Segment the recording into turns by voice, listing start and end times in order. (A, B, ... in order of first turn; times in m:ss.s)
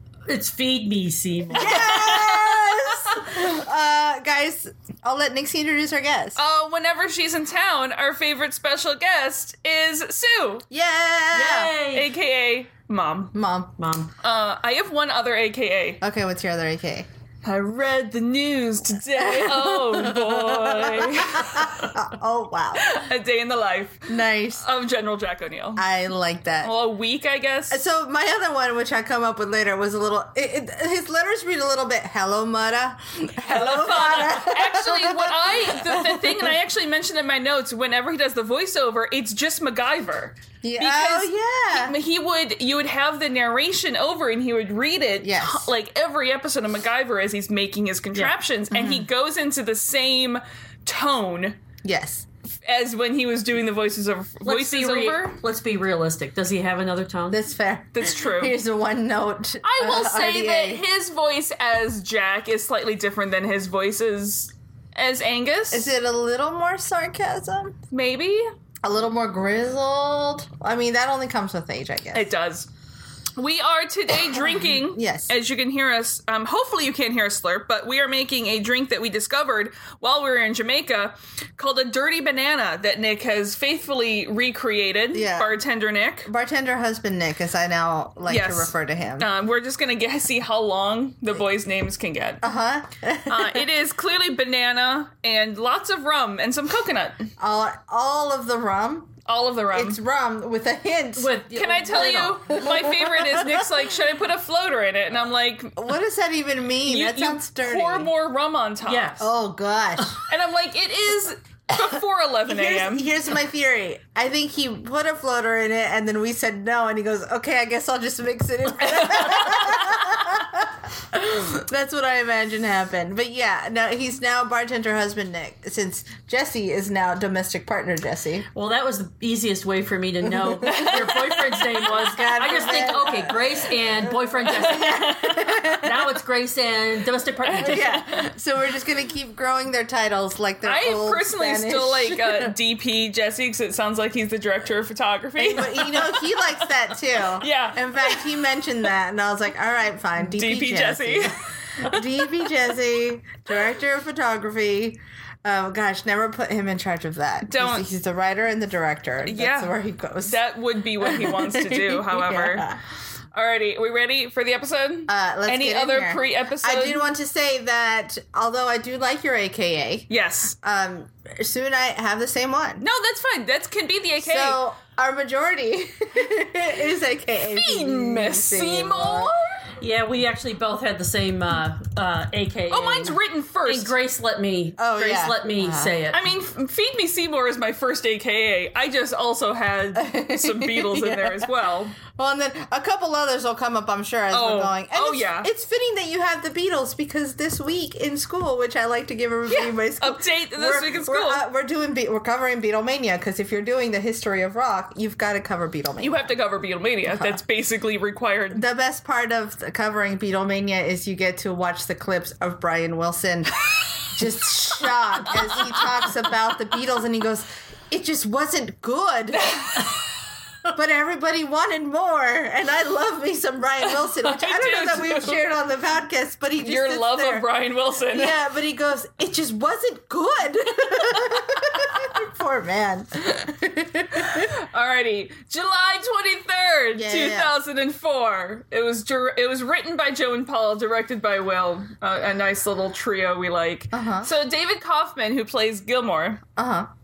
0:00.3-0:01.9 A
0:01.5-0:06.4 B
0:01.6-0:03.3 C
0:06.4-0:10.6 C
0:10.7-0:11.7 B
0:11.3-0:12.1 A
0:11.9-0:13.3 C
0:13.3-0:13.7 B
0:13.8-0:14.1 A
0:14.2-0:16.0 C
0:16.0-0:17.1 B
0:17.4-0:21.9 C
0:19.2-0:22.9 B
0:22.8-0:25.8 C
0:24.1-0:24.6 B
0:25.8-0:26.7 B
0:26.6-0:27.8 C
0:27.7-0:36.5 B
0:33.4-0:51.6 C
0:40.6-0:42.0 B
0:45.2-0:45.7 B
0:48.7-0:49.1 B
0:51.8-0:52.3 B
0:52.6-0:55.4 C
0:54.4-0:57.4 A
0:57.3-1:00.8 B
0:57.9-0:58.6 C
0:59.6-1:05.9 C
1:05.7-1:07.8 B
1:07.9-1:08.5 C
1:08.8-1:12.2 B
1:12.1-1:12.7 C
1:13.4-1:26.3 C
1:14.4-1:15.3 B
1:25.1-1:25.6 B
1:26.2-1:29.3 B
1:28.3-1:32.4 C
1:32.4-1:33.7 B
1:33.3-1:37.3 C
1:37.4-1:39.1 B
1:39.3-1:40.0 C
1:39.7-1:43.9 B
1:41.2-1:42.6 A
1:41.6-1:45.8 C
1:45.8-1:48.1 B
1:46.9-1:49.2 C
1:48.8-1:49.3 A
1:49.2-1:50.2 B
1:50.2-1:53.1 C
1:52.5-2:08.5 B
1:59.0-1:59.8 C
2:08.5-2:18.0 A
2:10.2-2:16.1 B
2:10.6-2:11.7 C
2:14.5-2:15.6 C
2:17.4-2:18.3 C
2:17.6-2:22.5 B
2:20.6-2:26.7 C
2:25.4-2:40.4 B
2:27.4-2:28.3 C
2:30.3-2:32.1 C
2:37.5-2:37.9 C
2:39.2-2:42.7 C
2:41.0-2:42.8 B
2:43.3-2:47.1 C
2:45.1-2:50.1 B
2:50.1-2:50.5 C
2:50.6-2:52.8 B
2:52.8-2:54.6 C
2:54.2-2:59.3 B
2:57.5-2:59.6 C
2:59.8-3:06.2 A
3:02.7-3:03.9 C
3:04.8-3:05.9 B
3:06.1-3:12.0 C
3:09.9-3:11.5 B
3:12.0-3:26.2 B
3:14.3-3:15.5 C
3:19.5-3:21.4 C
3:26.0-3:28.6 C
3:28.5-3:33.5 B
3:34.1-3:39.5 B
3:39.3-3:39.9 C
3:40.7-3:47.5 B
3:44.0-3:45.4 C
3:46.6-3:48.4 C
3:48.1-3:54.5 B
3:54.3-4:06.4 C
3:56.9-3:57.6 B
4:03.9-4:04.3 B
4:06.6-4:06.9 B